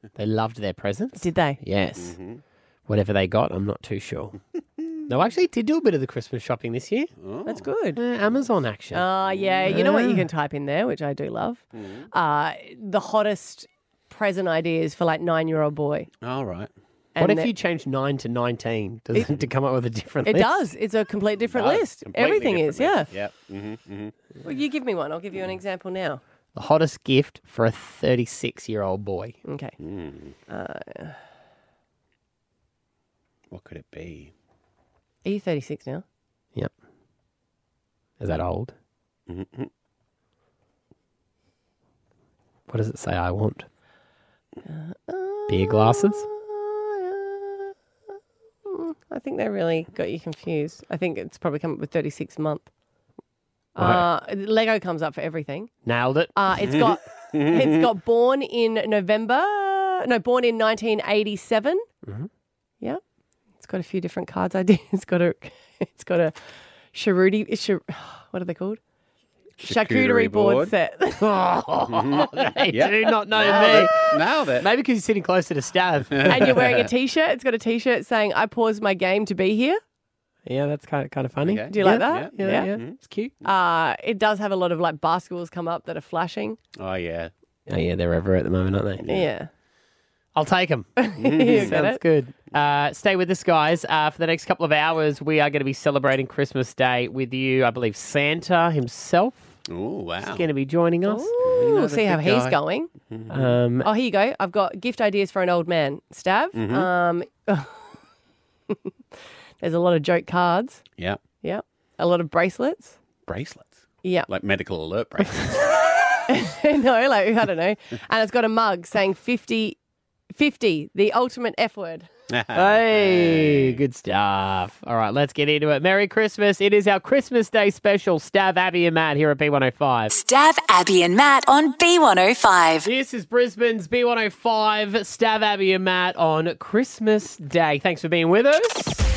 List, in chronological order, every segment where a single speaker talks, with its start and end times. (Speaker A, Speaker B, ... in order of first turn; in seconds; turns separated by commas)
Speaker A: 0.2-2.2, Speaker B: 1.2-1.6, Speaker C: 2.0-2.4, Speaker A: 2.9-4.3, Speaker A: 5.0-7.1, Speaker C: 7.2-7.7, Speaker B: 7.4-8.0, Speaker A: 8.0-9.0, Speaker B: 8.9-16.1, Speaker C: 9.3-9.7, Speaker A: 9.7-10.2, Speaker C: 11.7-12.1, Speaker C: 16.2-16.7, Speaker B: 17.1-17.5, Speaker A: 17.2-20.7, Speaker B: 20.2-23.1, Speaker C: 21.5-24.1, Speaker B: 24.4-26.2, Speaker A: 26.6-29.4, Speaker B: 29.5-29.8, Speaker C: 29.8-30.3, Speaker B: 30.5-31.2, Speaker C: 33.5-34.3, Speaker B: 35.2-36.0, Speaker A: 38.2-38.7, Speaker C: 39.3-39.7, Speaker A: 42.7-43.6, Speaker B: 44.6-47.7, Speaker A: 45.5-46.2, Speaker B: 48.6-52.7, Speaker B: 53.8-55.7, Speaker A: 53.8-54.0, Speaker A: 55.9-56.3, Speaker B: 56.3-61.8, Speaker C: 56.6-57.9, Speaker B: 63.6-66.3, Speaker B: 66.9-68.8, Speaker C: 69.6-70.7, Speaker B: 69.6-71.3, Speaker A: 71.2-76.8, Speaker C: 71.9-74.7, Speaker B: 76.2-79.8, Speaker C: 76.3-76.7, Speaker A: 80.5-83.3, Speaker C: 81.4-83.0, Speaker B: 81.7-82.7, Speaker B: 83.4-86.6, Speaker C: 86.8-87.3, Speaker A: 87.7-89.0, Speaker C: 89.0-89.3, Speaker B: 89.0-89.5, Speaker A: 90.3-90.9, Speaker B: 91.0-92.0, Speaker C: 91.2-91.8, Speaker A: 91.5-99.4, Speaker C: 99.7-100.5, Speaker A: 100.2-101.3, Speaker B: 101.0-102.9, Speaker C: 101.4-103.5, Speaker A: 103.3-103.9, Speaker B: 103.8-107.8, Speaker C: 106.5-106.9, Speaker B: 109.6-110.8, Speaker B: 111.4-113.0, Speaker C: 113.3-115.7, Speaker B: 114.0-114.3, Speaker B: 116.2-119.8, Speaker B: 120.3-122.1, Speaker C: 122.3-123.8, Speaker A: 122.5-130.1, Speaker D: 130.2-132.8, Speaker A: 132.8-139.0